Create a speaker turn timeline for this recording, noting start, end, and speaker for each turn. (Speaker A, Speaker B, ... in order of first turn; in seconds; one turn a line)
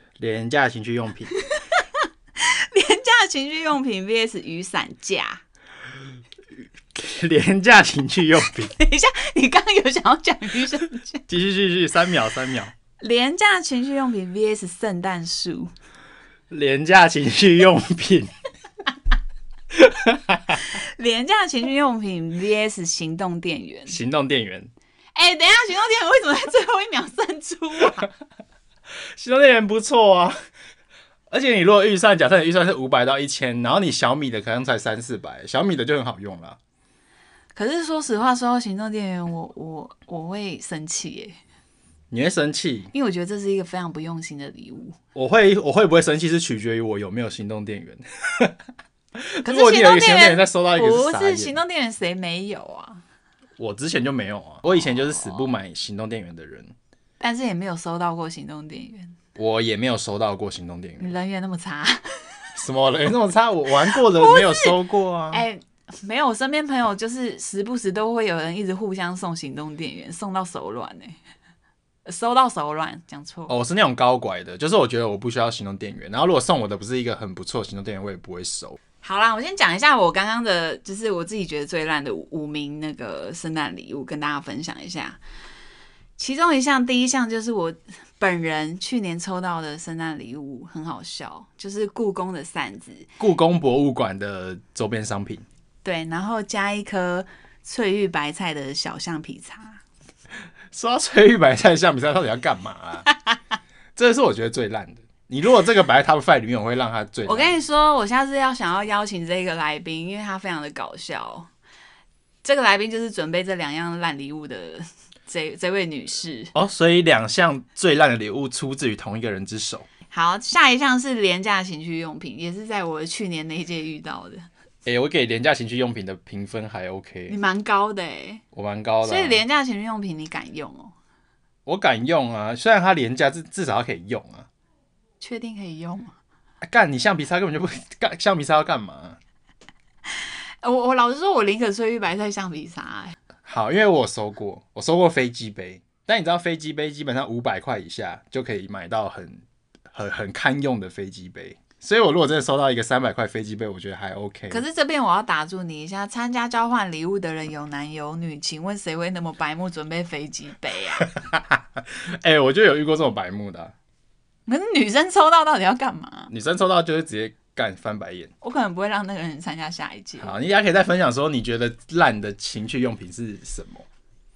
Speaker A: 0.2-1.3
Speaker B: 1.4-5.4
Speaker A: 7.0-8.7
Speaker B: 8.4-11.2
Speaker A: 11.3-12.7
Speaker B: 13.0-15.7
Speaker A: 16.5-18.3
Speaker A: 19.7-20.6
Speaker B: 20.6-24.0
Speaker A: 23.9-24.7
Speaker B: 25.1-28.1
Speaker A: 29.1-30.4
Speaker A: 31.3-36.6
Speaker B: 37.5-41.4
Speaker A: 42.1-42.9
Speaker B: 42.9-45.0
Speaker A: 45.1-48.6
Speaker A: 49.2-51.6
Speaker B: 49.5-53.0
Speaker A: 53.6-56.7
Speaker B: 54.7-55.5
Speaker B: 57.2-59.2
Speaker A: 59.4-61.1
Speaker B: 61.0-62.5
Speaker A: 62.6-65.5
Speaker B: 63.9-64.7
Speaker B: 65.3-71.2
Speaker B: 72.1-73.5
Speaker A: 73.5-78.8
Speaker B: 79.0-85.2
Speaker B: 86.2-93.1
Speaker A: 93.2-95.5
Speaker B: 95.8-99.8
Speaker A: 100.7-103.1
Speaker A: 104.0-107.6
Speaker B: 107.3-111.5
Speaker B: 112.4-116.5
Speaker A: 116.5-119.9
Speaker B: 120.1-124.5
Speaker A: 124.9-127.4
Speaker B: 127.3-128.4
Speaker A: 128.5-129.4
Speaker B: 129.0-130.9
Speaker A: 131.7-134.5
Speaker B: 135.2-136.1
Speaker A: 136.6-139.2
Speaker B: 140.1-143.2
Speaker A: 143.4-154.6
Speaker B: 154.5-161.1
Speaker A: 161.1-163.7
Speaker B: 164.5-166.3
Speaker A: 166.3-168.3
Speaker B: 168.4-170.3
Speaker A: 170.2-173.9